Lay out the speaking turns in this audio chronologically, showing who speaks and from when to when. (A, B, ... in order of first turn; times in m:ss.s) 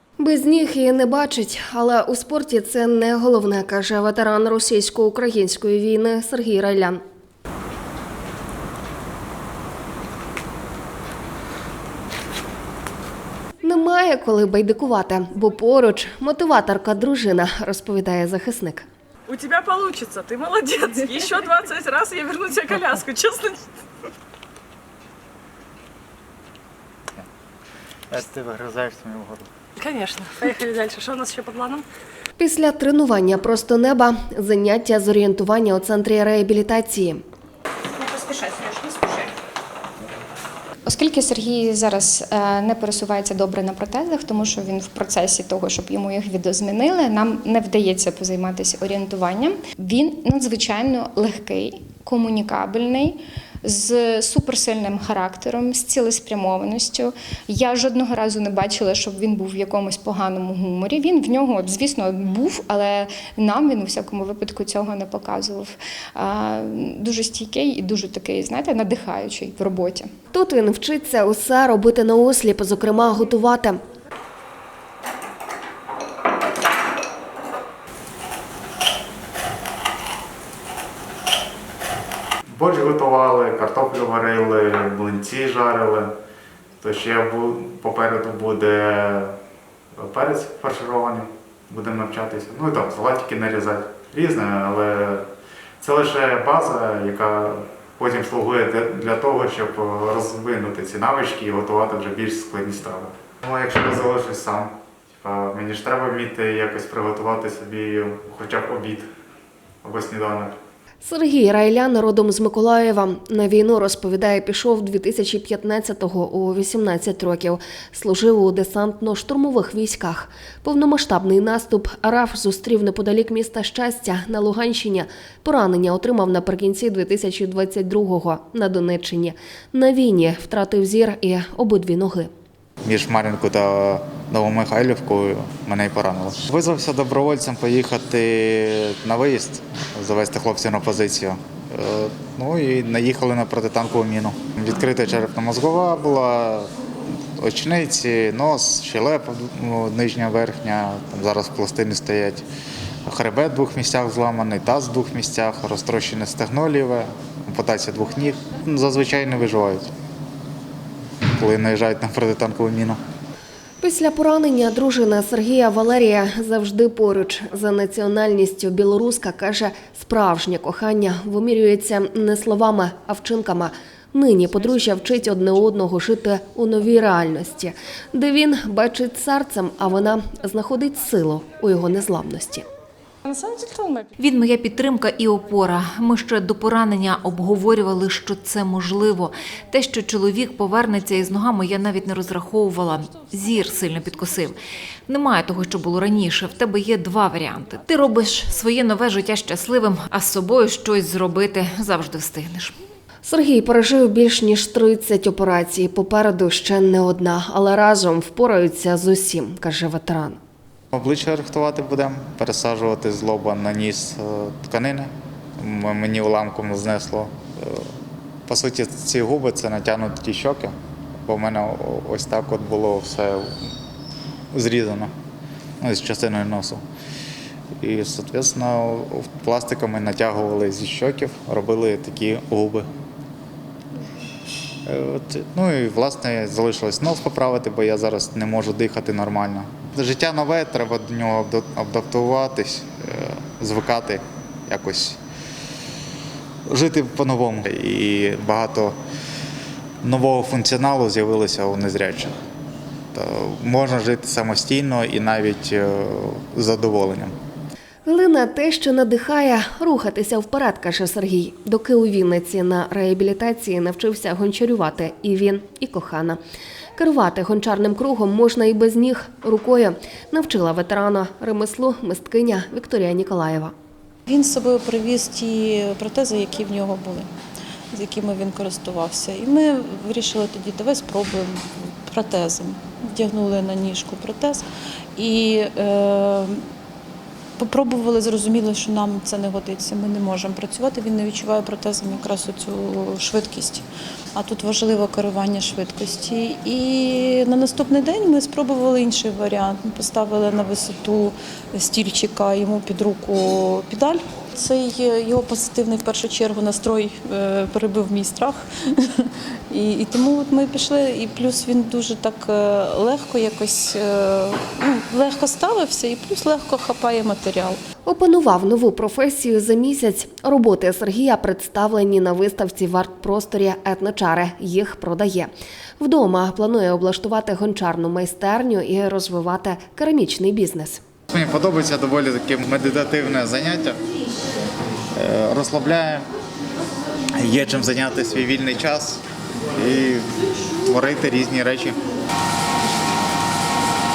0:00.2-0:07.0 A
0:13.6-0:18.8 A
0:19.3-0:23.7 B
0:28.1-0:29.5 C
0:29.8-0:31.8 B
0:32.4-0:37.2 A
0:38.0-0:39.3 B
0:40.9-1:10.1 D
1:10.3-1:13.8 A
1:22.5-1:26.1 C
1:26.8-1:29.4 C
1:29.9-1:35.3 C
1:35.8-1:49.1 C
1:49.8-1:50.6 C
1:51.0-2:12.3 A
2:12.8-2:26.7 C
2:27.4-2:32.4 C
2:33.0-2:39.9 C
2:41.4-2:43.0 C
2:43.8-3:02.6 A
3:03.3-3:04.1 B
3:04.2-3:22.8 E
3:23.2-3:30.4 A
3:30.9-3:37.9 C
3:38.5-3:40.7 C
3:41.2-3:43.5 C
3:44.5-3:45.1 C
3:45.8-3:46.8 C
3:47.8-3:52.9 C
3:54.8-4:05.2 C
4:06.7-4:09.0 C
4:10.0-4:12.3 C
4:13.1-4:17.3 C
4:18.0-4:26.4 A
4:27.0-4:33.7 A
4:34.3-4:37.3 F
4:37.9-4:44.6 F
4:45.2-4:46.6 F
4:47.6-4:53.8 F
4:54.3-5:17.8 F
5:18.0-5:31.0 A
5:31.3-5:34.0 C
5:35.1-5:36.3 C
5:37.3-5:39.2 C
5:39.7-5:42.0 C